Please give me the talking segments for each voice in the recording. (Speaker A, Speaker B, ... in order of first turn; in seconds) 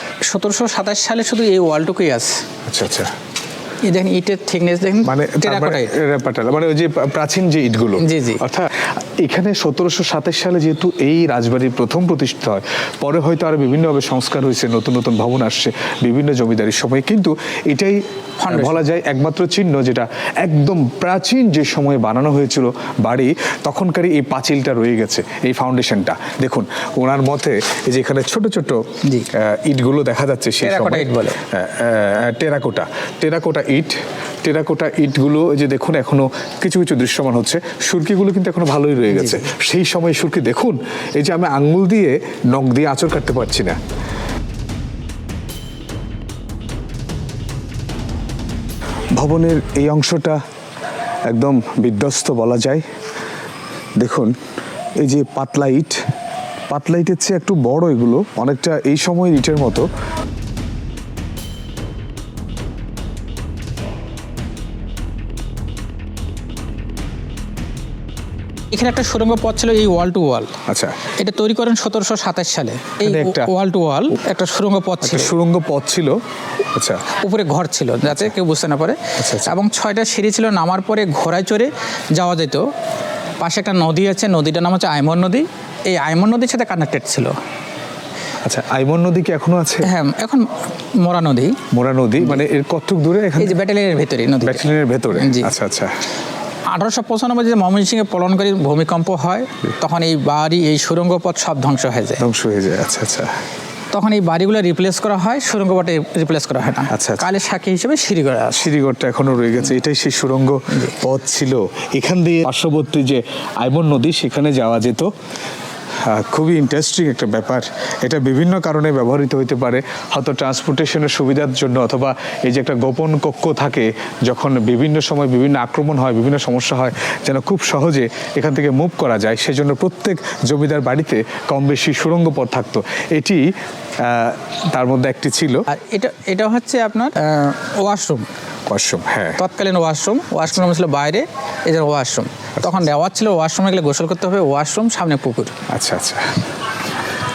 Speaker A: 0.3-2.3, 3.9-5.9, 8.0-8.4, 18.4-18.8, 30.6-31.4, 39.1-39.4, 68.7-70.5, 71.2-75.3, 77.2-82.7, 83.4-87.3, 89.8-90.5, 91.0-91.6, 93.4-95.5, 96.7-102.2, 103.9-108.7, 135.7-138.3, 139.4-145.5
Speaker B: 2.7-3.1, 5.0-18.0, 18.5-28.8, 29.3-43.8, 49.2-50.4, 51.3-52.8, 54.0-54.3, 55.0-56.0, 56.7-59.9, 70.7-71.0, 73.0-73.5, 75.0-76.2, 76.7-77.0, 79.2-79.5, 88.5-89.9, 91.7-93.6, 94.4-95.9, 102.2-103.3, 106.9-107.3, 108.5-115.1, 116.0-133.4, 134.0-135.6, 138.7-139.4, 145.7-146.3